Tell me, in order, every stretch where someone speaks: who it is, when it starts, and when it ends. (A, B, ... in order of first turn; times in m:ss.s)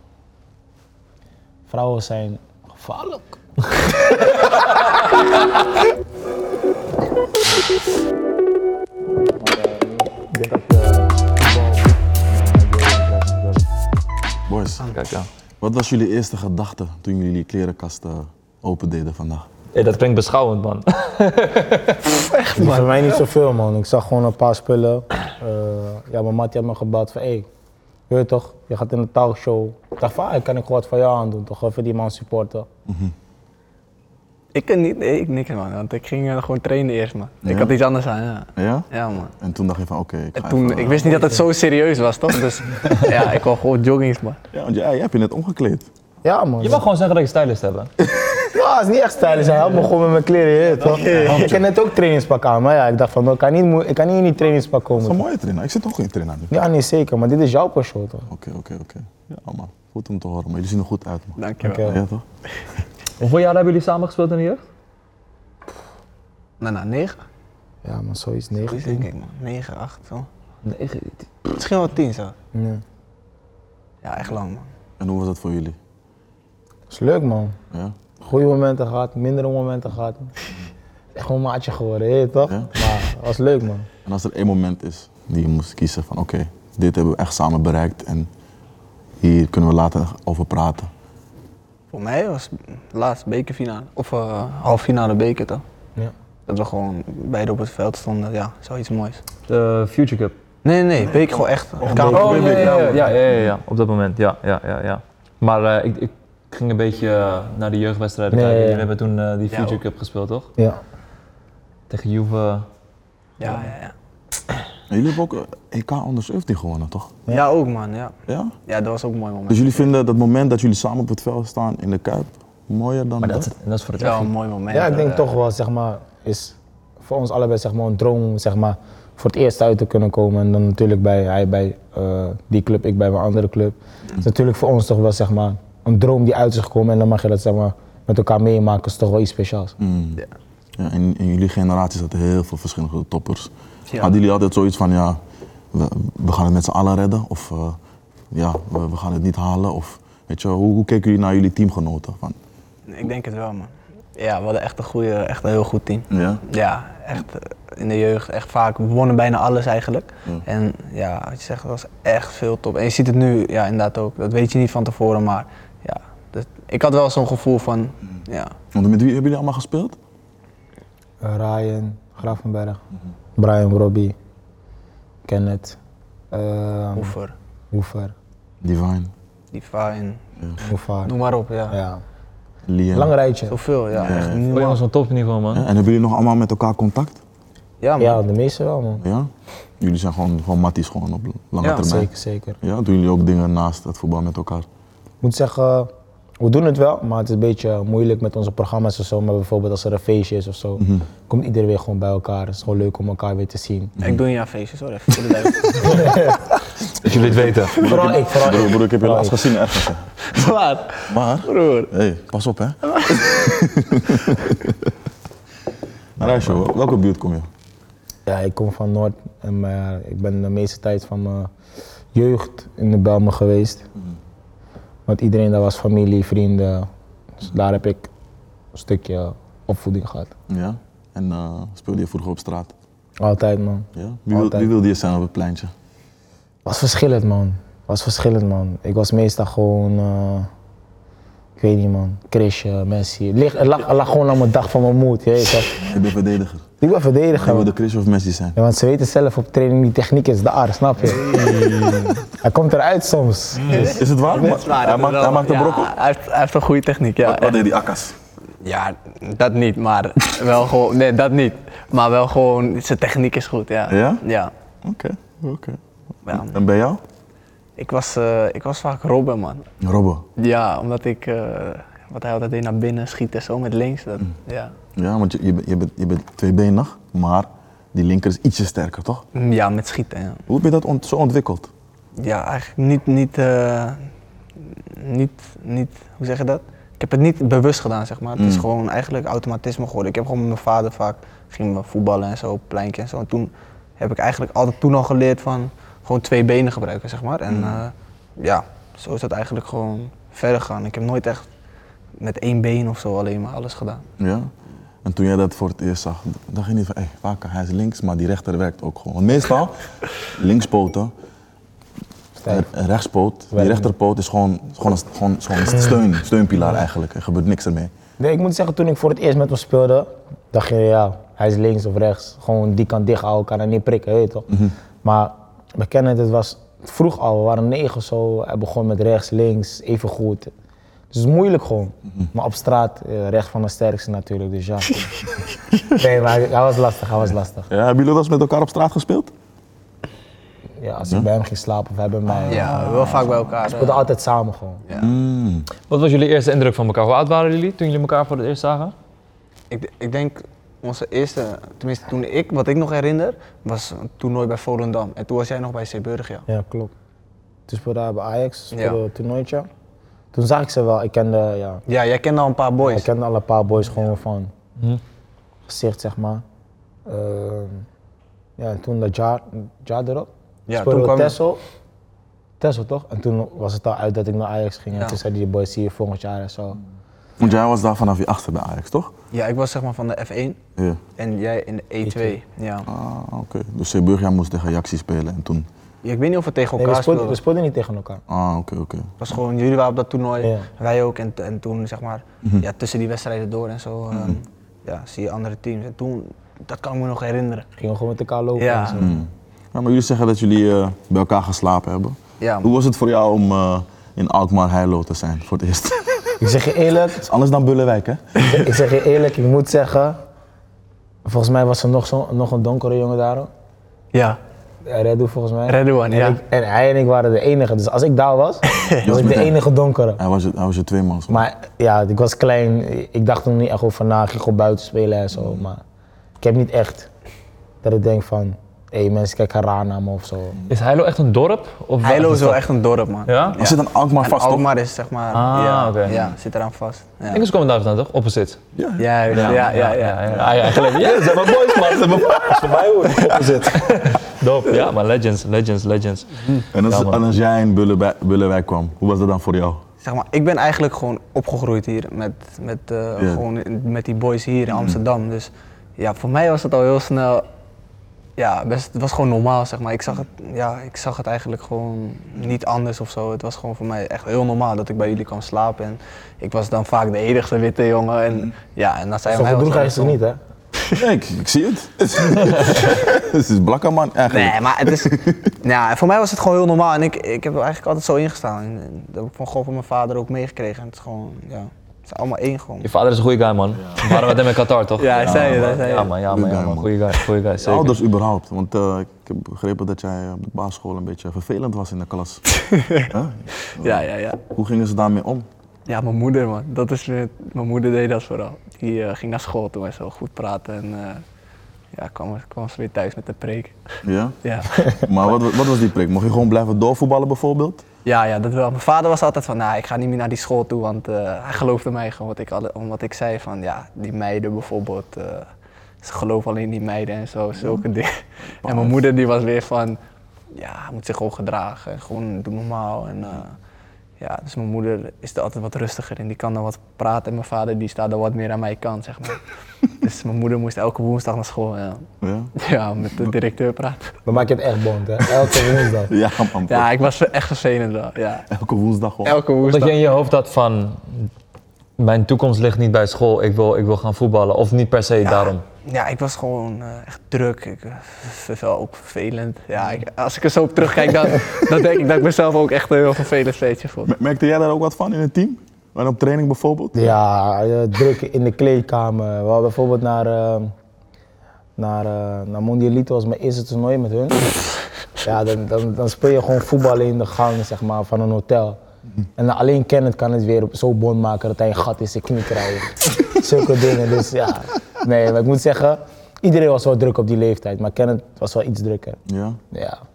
0:01.7-0:03.4 A
0:09.4-0:13.6 A
0:14.5-0:14.9 B
0:14.9-0:15.3 C
0:15.6-0:19.5 B
0:19.7-0:22.0 C
0:22.1-0:23.2 D
0:22.6-0:27.5 A
0:28.1-0:32.7 A
0:32.9-0:33.1 B
0:34.5-0:39.3 D
0:37.4-0:37.7 B
0:38.6-0:41.4 B
0:40.4-0:44.4 D
0:44.5-0:45.9 B
0:46.2-0:46.8 A
0:46.6-0:47.9 C
0:48.5-0:55.2 A
0:50.8-0:51.4 D
0:50.9-0:51.7 B
0:55.0-0:56.5 B
0:56.5-0:58.3 A
0:58.3-1:02.2 B
1:01.4-1:01.9 D
1:01.6-1:02.0 A
1:03.2-1:04.6 C
1:06.6-1:07.2 D
1:07.8-1:09.1 A
1:08.7-1:10.3 D
1:10.7-1:11.1 C
1:11.5-1:12.4 D
1:12.5-1:12.8 A
1:14.0-1:14.7 D
1:15.0-1:15.8 B
1:16.9-1:17.6 A
1:17.7-1:18.0 B
1:18.2-1:20.3 A
1:21.2-1:23.9 A
1:24.0-1:28.3 B
1:29.2-1:30.9 B
1:31.9-1:35.6 D
1:36.5-1:39.2 D
1:39.5-1:40.4 C
1:40.6-1:43.1 D
1:41.8-1:42.8 B
1:41.8-1:42.7 A
1:41.9-1:50.5 C
1:48.3-1:48.9 A
1:49.5-1:49.8 D
1:51.9-1:52.7 C
1:53.4-1:53.9 D
1:54.9-1:57.2 B
1:57.3-1:58.1 D
1:58.3-1:58.6 B
1:58.7-1:59.9 D
1:59.5-2:03.5 B
2:03.2-2:04.3 C
2:04.0-2:05.3 D
2:04.7-2:19.8 A
2:19.8-2:20.2 B
2:20.8-2:25.2 B
2:25.7-2:27.8 B
2:28.3-2:32.4 B
2:32.9-2:48.5 D
2:36.1-2:36.4 B
2:48.7-2:50.0 B
2:51.2-2:52.8 A
2:53.4-2:54.2 A
2:55.2-2:55.8 A
2:56.3-2:57.2 A
2:57.0-2:57.4 D
2:57.7-2:58.1 A
2:58.6-2:59.1 B
2:59.5-3:00.2 D
3:00.6-3:01.1 A
3:01.0-3:01.8 D
3:01.7-3:02.0 A
3:02.7-3:03.2 B
3:02.9-3:03.6 A
3:03.5-3:04.8 D
3:03.9-3:04.4 B
3:04.5-3:05.7 C
3:05.5-3:07.2 B
3:07.8-3:08.2 D
3:08.0-3:09.0 A
3:09.0-3:12.1 B
3:11.6-3:11.9 D
3:11.8-3:12.6 A
3:12.6-3:14.7 B
3:15.2-3:24.0 A
3:20.8-3:21.0 B
3:24.0-3:26.4 D
3:27.0-3:27.8 C
3:27.0-3:30.2 B
3:27.8-3:29.4 A
3:30.2-3:31.9 D
3:31.1-3:34.9 B
3:36.2-3:37.5 B
3:38.3-3:41.5 A
3:42.1-3:43.9 A
3:45.1-3:46.9 A
3:47.4-3:48.1 A
3:48.7-3:50.3 A
3:50.5-3:52.7 B
3:53.2-3:54.7 A
3:54.0-3:55.7 B
3:56.7-4:00.5 A
4:01.6-4:05.8 A
4:05.8-4:06.7 B
4:06.8-4:07.7 A
4:07.3-4:08.6 B
4:08.6-4:11.4 A
4:11.2-4:12.2 C
4:12.3-4:14.0 A
4:13.6-4:14.0 C
4:13.7-4:17.6 D
4:13.7-4:16.0 B
4:17.2-4:18.2 B
4:18.6-4:24.5 D
4:23.9-4:24.2 B
4:24.8-4:27.0 B
4:26.3-4:26.6 D
4:27.8-4:29.7 D
4:29.8-4:30.2 B
4:30.4-4:34.8 D
4:35.0-4:39.2 B
4:39.4-4:40.4 D
4:40.5-4:41.7 B
4:42.2-5:01.5 D
4:48.4-4:48.7 B
4:57.5-4:57.8 B
5:02.2-5:04.0 D
5:04.2-5:04.5 B
5:05.0-5:11.1 B
5:12.4-5:12.7 A
5:12.5-5:17.9 B
5:13.5-5:13.9 A
5:18.2-5:30.5 A
5:31.1-5:35.1 A
5:35.9-5:37.7 A
5:37.7-5:39.3 B
5:40.8-5:43.1 A
5:41.0-5:41.3 B
5:42.5-5:44.0 D
5:42.9-5:43.3 B
5:43.7-5:44.8 A
5:44.9-5:45.7 B
5:45.9-5:48.9 C
5:49.7-5:56.5 D
5:56.5-5:56.9 A
5:57.7-5:59.7 A
5:58.7-5:59.0 D
6:00.3-6:01.8 A
6:01.9-6:03.1 D
6:02.8-6:04.5 A
6:05.7-6:06.4 A
6:07.1-6:07.9 A
6:08.6-6:11.6 A
6:10.7-6:11.4 D
6:12.6-6:16.8 A
6:17.4-6:19.1 B
6:19.3-6:20.6 D
6:21.2-6:22.9 D
6:22.0-6:22.4 A
6:22.9-6:25.7 B
6:26.0-6:27.4 D
6:26.8-6:28.2 A
6:28.3-6:29.1 B
6:29.2-6:37.7 D
6:30.4-6:30.7 A
6:34.1-6:34.4 B
6:37.8-6:39.2 A
6:38.6-6:39.0 D
6:39.0-6:46.4 B
6:42.4-6:42.7 D
6:46.4-6:47.3 A
6:47.2-6:48.5 B
6:48.5-6:50.2 A
6:51.2-6:53.5 A
6:54.1-6:54.4 D
6:54.8-7:00.2 A
6:55.7-6:56.4 D
6:58.7-6:59.0 D
6:59.0-6:59.6 B
7:00.2-7:01.5 B
7:01.3-7:05.8 A
7:05.3-7:05.7 B
7:06.4-7:07.1 A
7:07.8-7:10.6 A
7:10.7-7:12.6 C
7:12.0-7:17.5 D
7:13.3-7:13.6 C
7:13.5-7:14.6 B
7:15.3-7:16.3 C
7:17.3-7:18.6 C
7:18.8-7:19.7 B
7:19.0-7:20.5 D
7:19.3-7:27.2 C
7:20.3-7:23.8 B
7:26.7-7:29.8 B
7:30.0-7:37.5 D
7:33.2-7:33.4 B
7:34.7-7:35.0 B
7:38.4-7:50.2 D
7:49.3-7:50.4 A
7:50.9-7:55.5 B
7:54.3-8:02.9 D
8:02.8-8:08.0 C
8:03.8-8:04.0 B
8:04.0-8:04.3 D
8:05.0-8:06.1 D
8:05.2-8:07.0 B
8:07.6-8:12.4 B
8:12.6-8:13.1 D
8:13.1-8:15.5 B
8:13.8-8:14.4 D
8:15.9-8:21.2 D
8:21.9-8:23.8 D
8:24.0-8:27.8 B
8:24.4-8:25.0 D
8:28.0-8:35.5 D
8:36.0-8:40.0 D
8:38.6-8:39.1 B
8:40.5-8:43.6 D
8:44.2-8:54.2 D
8:52.2-8:52.5 B
8:54.2-8:56.1 A
8:56.1-8:57.0 B
8:56.7-8:58.5 D
8:58.5-8:59.4 B
8:59.2-9:00.0 D
8:59.6-9:01.3 C
9:02.0-9:05.6 C
9:05.2-9:14.1 D
9:14.1-9:17.1 B
9:16.9-9:20.7 A
9:21.8-9:24.5 A
9:25.2-9:28.8 A
9:29.4-9:39.2 A
9:39.3-9:39.6 B
9:39.7-9:40.0 A